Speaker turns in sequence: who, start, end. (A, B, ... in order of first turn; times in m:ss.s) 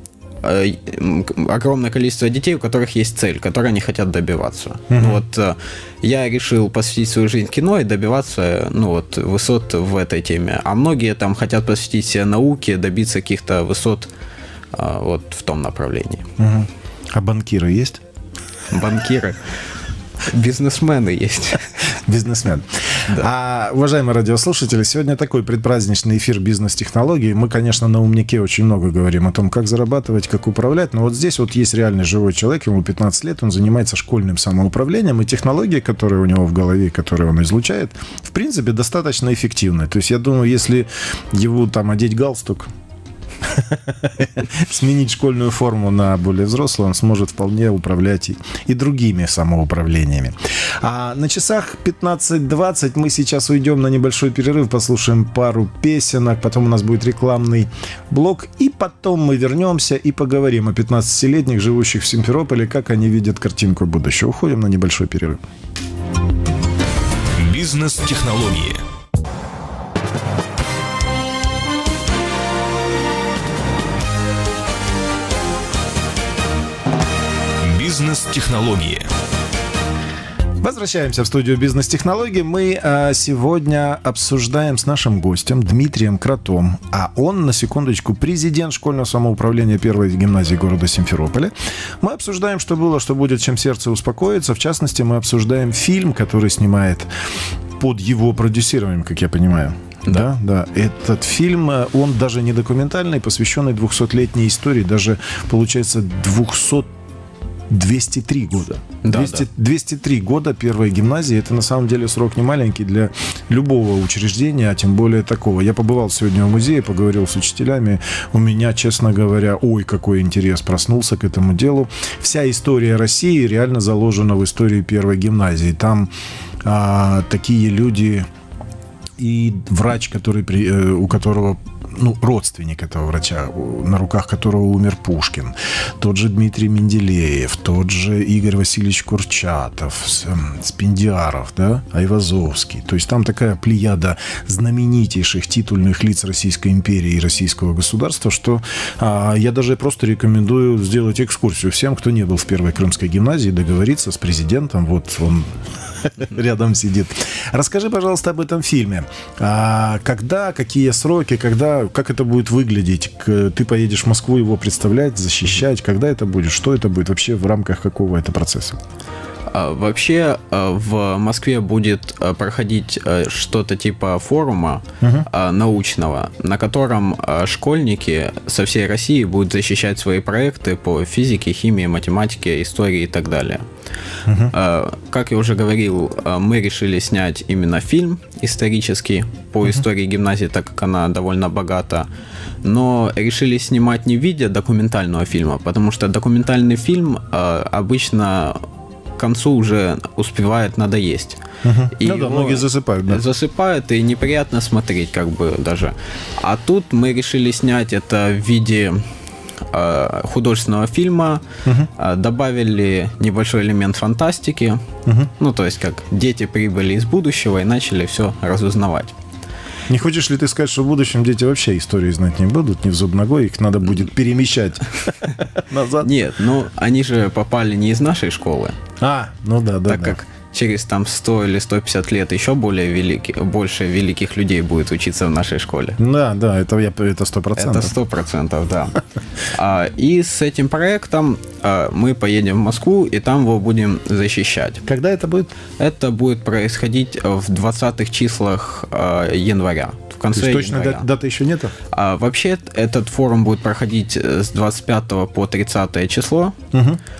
0:00.4-0:14.1 A
0:04.9-0:05.2 B
0:14.7-0:16.3 A
0:16.4-0:18.0 B
0:18.7-0:19.5 A
0:20.2-0:21.8 A
0:22.0-0:42.7 B
0:43.4-1:05.4 B
1:07.3-1:08.8 C
1:17.6-1:19.1 C
1:20.6-1:37.1 B
1:37.8-1:46.9 B
1:47.7-2:06.1 B
1:49.0-1:49.5 A
2:06.6-2:08.3 B
2:09.2-2:48.8 B
2:49.5-3:03.6 A
2:55.0-2:55.2 B
3:04.2-3:04.5 B
3:04.5-3:12.1 A
3:12.6-3:18.6 A
3:19.2-3:21.4 A
3:21.6-3:23.2 B
3:22.0-3:29.0 A
3:29.7-3:31.4 A
3:32.0-3:34.8 A
3:35.0-3:35.3 B
3:35.4-3:39.1 A
3:39.9-3:46.1 B
3:46.0-3:48.8 A
3:49.0-3:50.2 B
3:49.9-3:56.0 A
3:56.0-3:57.9 B
3:57.6-3:59.0 A
3:59.5-4:04.8 A
4:04.8-4:05.5 B
4:05.8-4:11.0 A
4:10.3-4:11.7 B
4:11.9-4:16.6 A
4:16.7-4:17.0 B